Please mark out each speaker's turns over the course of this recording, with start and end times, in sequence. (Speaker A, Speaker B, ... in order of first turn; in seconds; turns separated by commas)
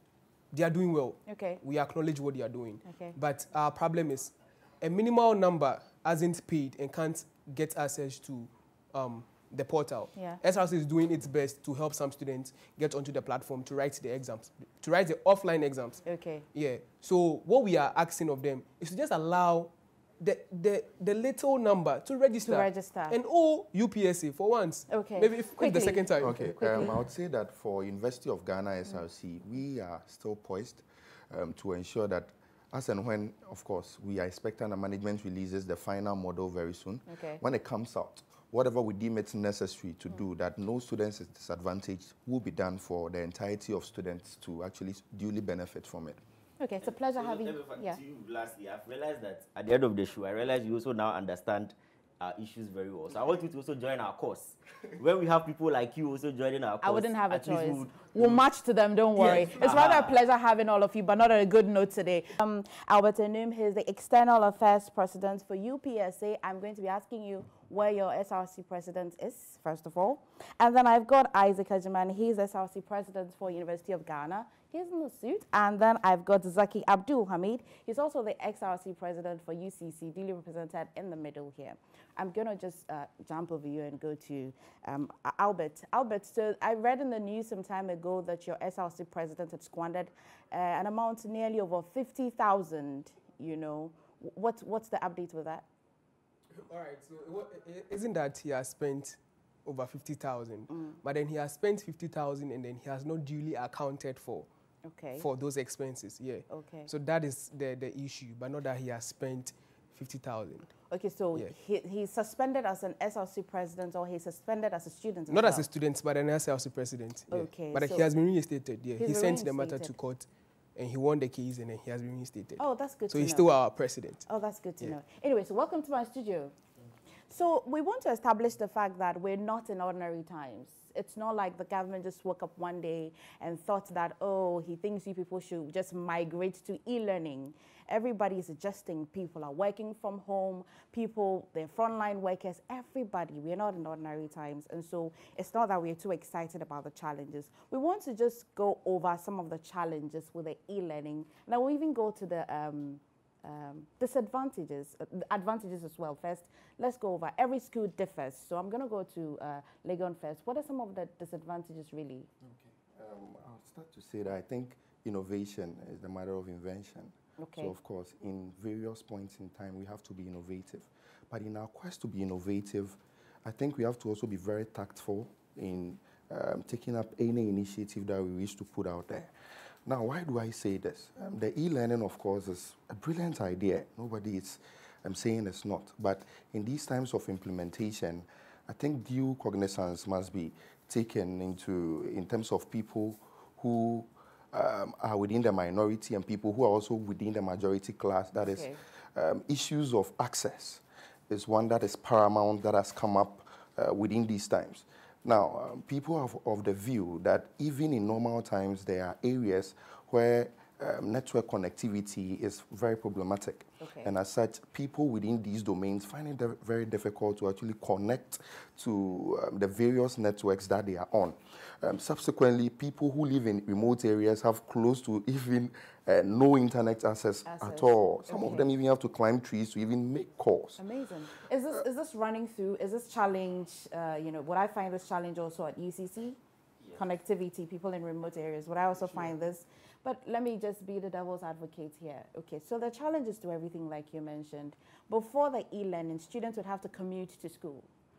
Speaker A: 0.5-16.0, Speaker B: 1.3-1.6, Speaker B: 2.9-3.2, Speaker B: 16.1-16.5, Speaker A: 16.5-26.4, Speaker B: 22.4-23.2, Speaker B: 24.9-27.0, Speaker C: 26.2-46.2, Speaker B: 37.1-37.4, Speaker B: 46.6-48.0, Speaker D: 47.2-58.4, Speaker B: 56.8-95.7, Speaker D: 59.2-60.2, Speaker A: 96.6-104.5, Speaker B: 100.7-101.0, Speaker B: 104.9-105.3, Speaker A: 105.2-110.7, Speaker B: 106.5-106.9, Speaker B: 110.9-115.7, Speaker A: 115.3-124.2, Speaker B: 117.3-118.1, Speaker B: 119.0-120.0, Speaker B: 122.6-123.6, Speaker B: 124.2-126.5, Speaker B: 127.3-162.3, Speaker C: 162.4-179.3, Speaker B: 167.4-167.7, Speaker C: 179.9-230.8, Speaker B: 198.4-198.8, Speaker B: 213.8-214.1, Speaker B: 227.5-228.7, Speaker B: 230.8-236.4, Speaker B: 236.9-247.9